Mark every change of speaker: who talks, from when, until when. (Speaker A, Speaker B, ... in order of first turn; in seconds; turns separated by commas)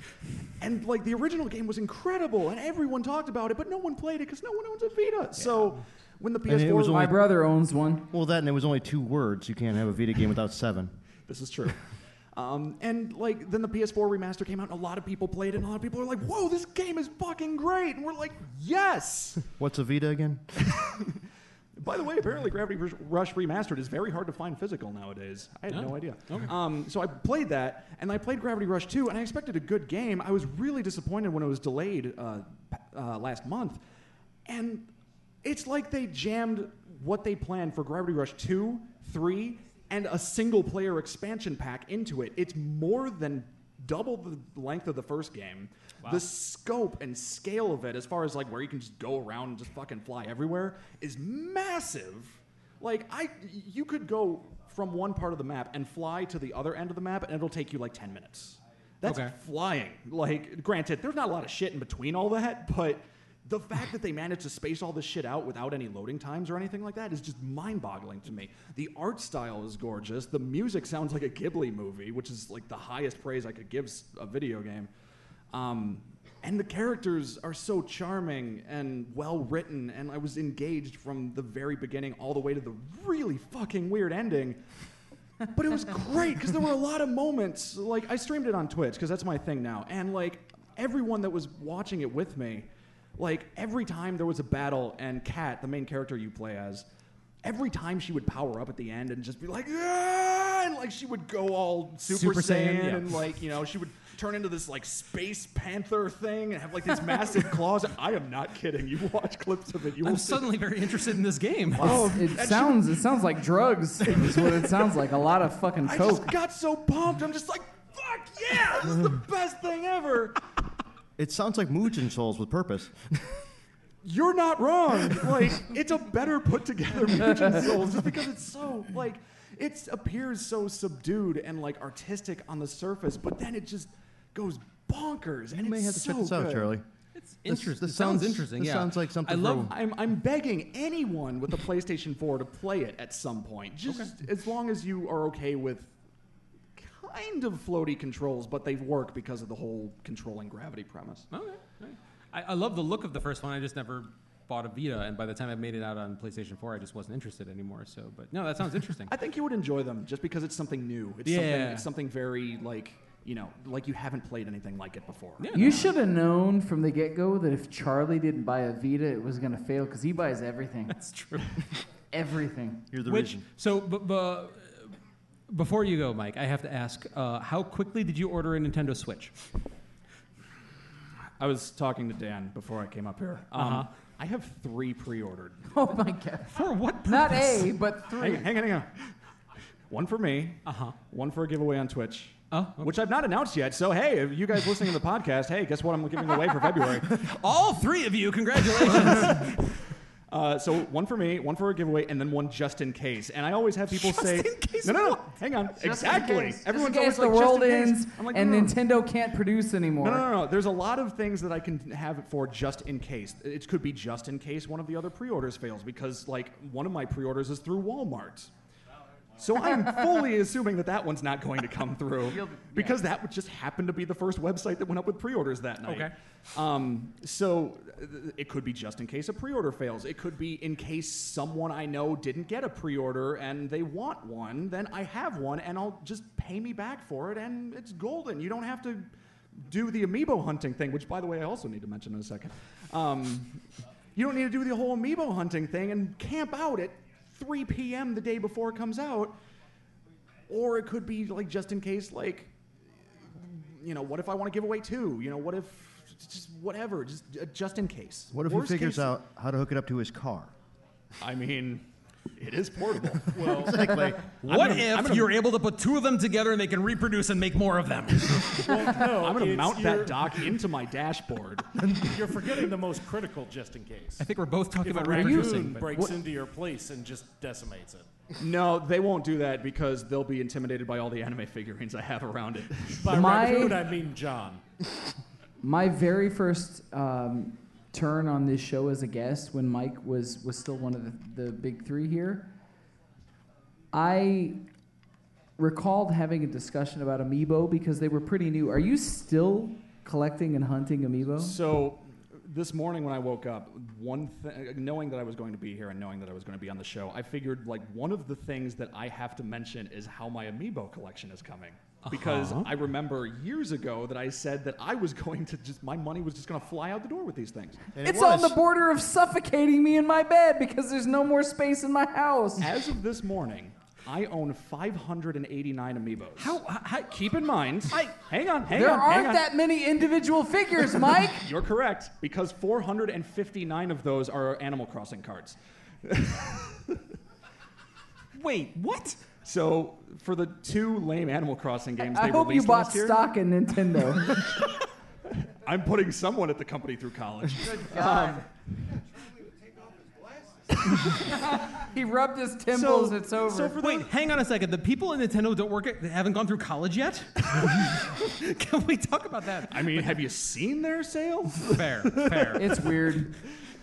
Speaker A: 0.6-7.1, Speaker B: 6.5-7.2, Speaker C: 6.9-8.1, Speaker B: 8.1-10.9, Speaker A: 11.3-11.8, Speaker A: 12.3-19.4, Speaker B: 19.6-20.4, Speaker A: 20.8-21.2, Speaker A: 21.8-33.8, Speaker D: 25.7-26.5, Speaker A: 34.5-34.9, Speaker A: 35.4-74.9, Speaker D: 59.0-59.3, Speaker A: 75.5-84.6, Speaker A: 85.4-96.8, Speaker A: 97.4-110.5, Speaker D: 102.0-103.2, Speaker D: 110.0-112.1, Speaker A: 111.7-112.9, Speaker C: 111.8-116.3, Speaker A: 114.1-114.7, Speaker A: 115.8-120.4, Speaker B: 121.2-123.4, Speaker A: 124.0-136.7, Speaker B: 135.5-136.8, Speaker D: 137.2-139.7, Speaker B: 137.5-139.7, Speaker A: 139.7-145.9, Speaker A: 146.8-151.3, Speaker D: 151.3-159.1, Speaker A: 159.1-165.8, Speaker D: 161.2-161.8, Speaker D: 165.4-165.9, Speaker C: 165.5-170.9, Speaker D: 170.9-171.6, Speaker C: 172.1-172.9, Speaker B: 172.9-173.4, Speaker D: 173.1-174.9, Speaker D: 175.5-179.3, Speaker A: 181.4-185.7, Speaker D: 183.5-183.9, Speaker C: 185.7-188.5, Speaker D: 186.5-187.7, Speaker A: 188.2-189.1, Speaker A: 189.9-197.2, Speaker D: 190.6-190.9, Speaker D: 192.5-192.9, Speaker D: 197.1-199.5, Speaker A: 198.8-199.5, Speaker A: 200.3-208.8, Speaker D: 203.9-205.3, Speaker C: 205.8-210.3, Speaker A: 210.0-218.5, Speaker A: 219.4-243.6, Speaker C: 222.3-223.0, Speaker D: 225.8-226.1, Speaker A: 244.1-249.3, Speaker A: 250.5-252.5, Speaker A: 253.3-259.1, Speaker B: 258.3-260.5, Speaker A: 261.2-261.8, Speaker A: 262.4-265.3, Speaker E: 263.3-263.9, Speaker B: 263.4-264.2, Speaker D: 264.4-268.9, Speaker E: 268.6-270.3, Speaker A: 269.0-272.1, Speaker E: 272.0-274.2, Speaker D: 274.2-275.9, Speaker E: 274.8-278.1, Speaker C: 275.1-276.1, Speaker A: 278.4-283.5, Speaker E: 283.0-284.6, Speaker C: 283.1-283.8, Speaker C: 285.6-292.5, Speaker C: 293.9-294.6, Speaker C: 295.6-301.6, Speaker A: 301.4-317.9, Speaker D: 312.0-312.7, Speaker B: 317.9-318.6, Speaker C: 318.0-322.7, Speaker A: 322.6-329.5, Speaker D: 326.4-327.0, Speaker C: 328.7-331.5, Speaker A: 330.9-337.0, Speaker D: 338.3-339.2, Speaker A: 339.4-343.2, Speaker C: 342.0-344.3, Speaker A: 344.2-344.6, Speaker A: 345.6-348.5, Speaker C: 347.6-348.4, Speaker A: 350.9-351.1, Speaker C: 351.1-353.8, Speaker A: 352.7-354.1, Speaker D: 353.8-360.1, Speaker A: 359.7-362.9, Speaker D: 361.6-362.6, Speaker C: 362.6-363.3